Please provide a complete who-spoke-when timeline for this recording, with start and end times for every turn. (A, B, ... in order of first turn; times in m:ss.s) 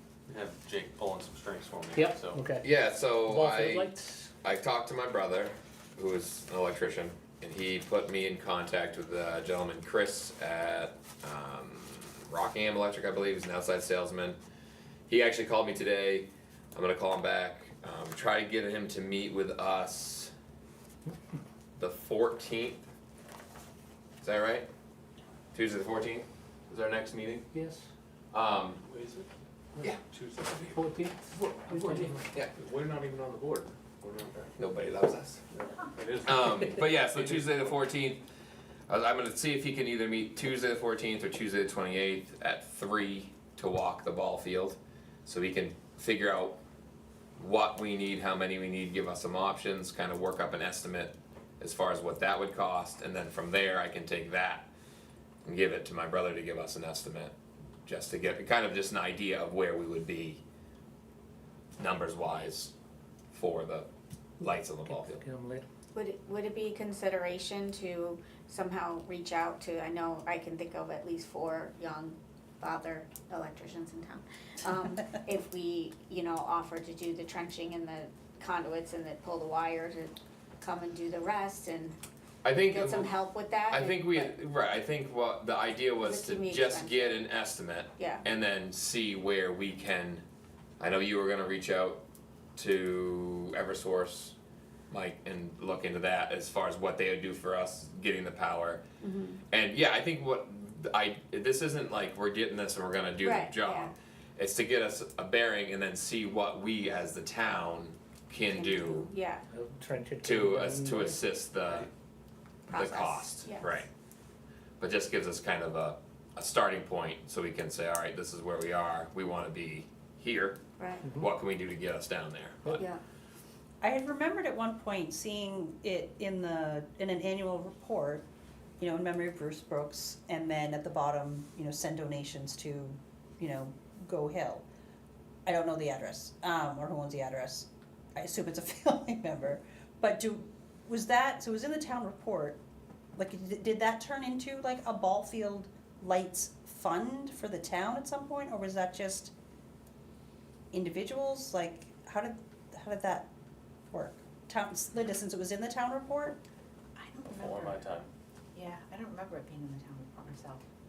0:00.3-0:02.5 A
0:01.9-0:04.3 B
0:02.6-0:14.4 C
0:15.1-0:20.3 C
0:21.8-0:22.8 C
0:24.2-0:24.7 C
0:25.5-0:27.4 C
0:27.5-0:27.9 B
0:28.3-0:28.8 C
0:30.1-0:30.7 A
0:30.6-0:32.4 B
0:33.1-0:34.4 A
0:34.6-0:35.4 C
0:36.0-0:36.3 A
0:36.2-0:38.2 C
0:37.1-0:37.6 A
0:38.9-0:46.6 C
0:47.4-0:54.7 C
0:55.4-0:57.3 C
0:57.8-1:00.4 C
1:01.8-1:02.7 C
1:03.3-1:03.9 C
1:04.4-1:05.2 C
1:04.8-1:05.6 B
1:05.9-1:22.0 D
1:22.4-1:23.1 C
1:22.7-1:24.3 D
1:23.7-1:30.2 C
1:26.0-1:27.2 D
1:28.0-1:28.2 D
1:30.8-1:32.0 C
1:32.6-1:34.3 C
1:34.9-1:38.8 C
1:39.0-1:39.4 D
1:39.5-1:49.1 C
1:43.2-1:43.9 D
1:48.4-1:49.4 D
1:49.5-1:51.2 B
1:50.2-1:51.9 C
1:52.7-1:53.8 D
1:52.7-1:53.9 C
1:54.8-2:00.6 C
2:00.8-2:01.1 D
2:01.1-2:02.8 C
2:02.8-2:03.0 D
2:03.8-2:08.2 E
2:08.8-2:14.6 E
2:15.4-2:22.6 E
2:23.2-2:29.3 E
2:30.7-2:33.3 E
2:33.9-2:36.4 E
2:36.9-2:37.8 F
2:37.3-2:38.1 A
2:38.5-2:40.6 F